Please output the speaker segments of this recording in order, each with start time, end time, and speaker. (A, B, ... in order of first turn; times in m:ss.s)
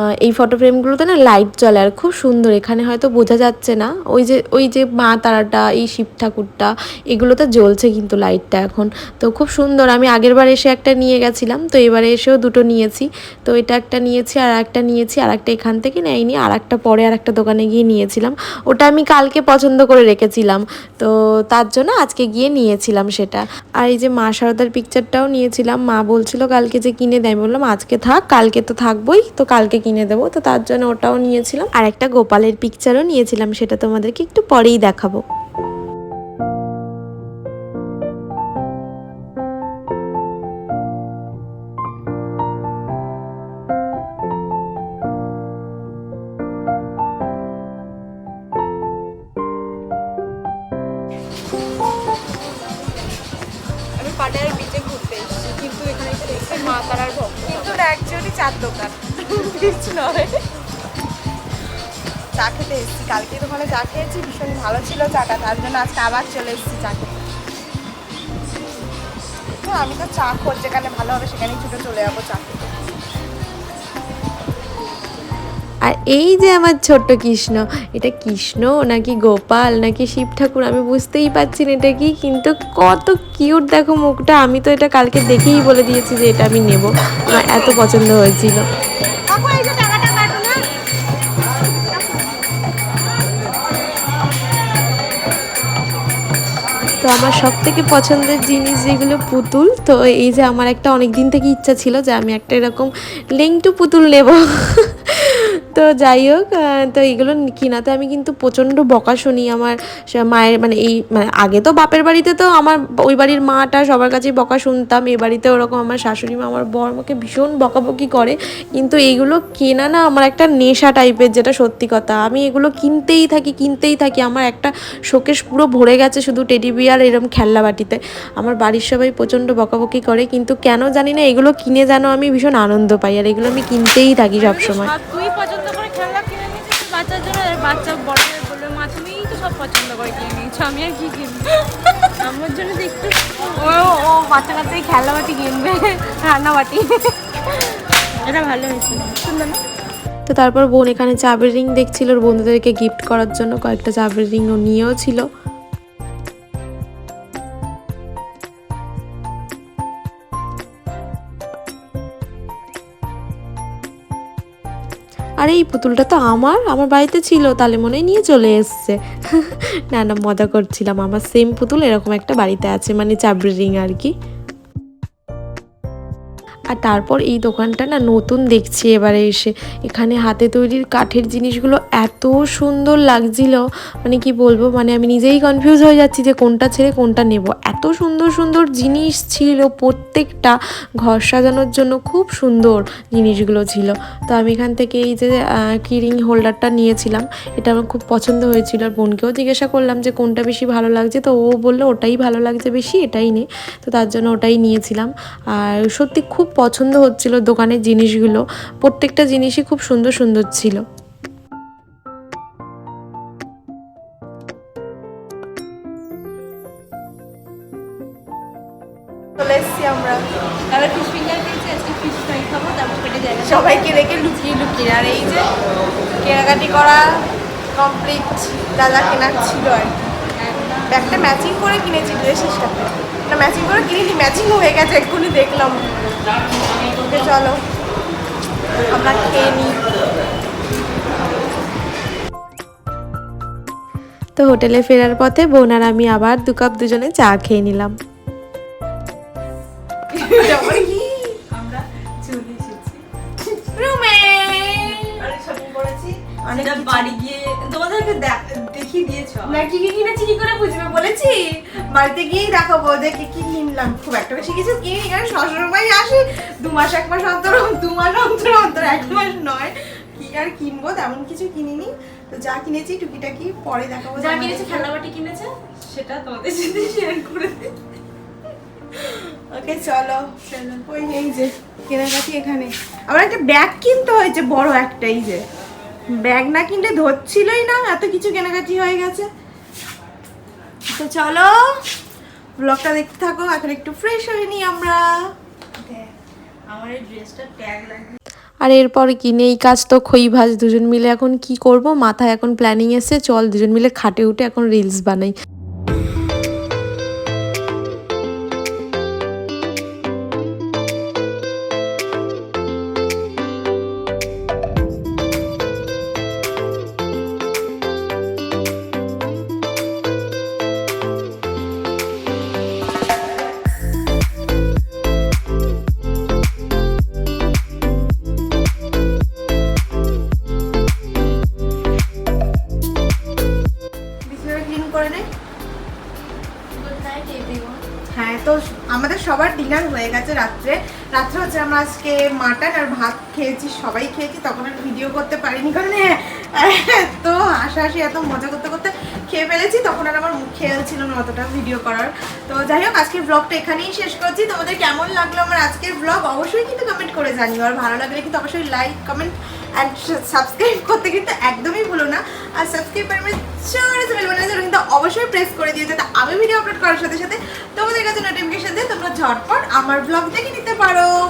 0:00.2-0:35.2 A
0:54.0-0:57.8 B
0:57.4-1:00.4 C
1:02.4-1:07.2 C
1:09.6-1:12.6 C
1:15.9-1:28.6 A
1:27.3-1:27.7 C
1:29.3-1:30.6 C
1:37.0-2:14.9 A
2:14.4-2:29.2 B
2:23.8-2:24.8 C
2:28.9-2:29.6 C
2:30.3-2:35.3 A
2:45.4-2:54.1 A
2:56.7-3:30.8 A
3:39.4-3:40.2 C
3:40.7-3:45.2 B
3:43.4-3:45.5 C
3:46.2-3:47.1 C
3:47.7-3:50.1 C
3:50.4-3:51.2 B
3:50.9-3:55.9 C
3:57.0-3:57.6 C
3:58.9-3:59.8 C
4:04.4-4:08.0 A
4:10.1-4:10.8 B
4:10.2-4:11.4 C
4:11.5-4:13.0 B
4:13.6-4:15.4 C
4:14.8-4:19.7 B
4:16.4-4:17.2 C
4:19.4-4:34.9 C
4:28.7-4:29.4 B
4:34.1-4:37.7 B
4:39.0-4:45.4 C
4:40.5-4:40.8 B
4:46.1-4:49.3 C
4:50.9-4:51.5 C
4:52.6-4:55.1 C
4:55.8-4:56.1 B
4:56.7-4:58.1 B
4:58.6-5:05.3 A
5:34.2-5:35.3 C
5:36.8-5:37.8 B
5:38.1-6:11.1 C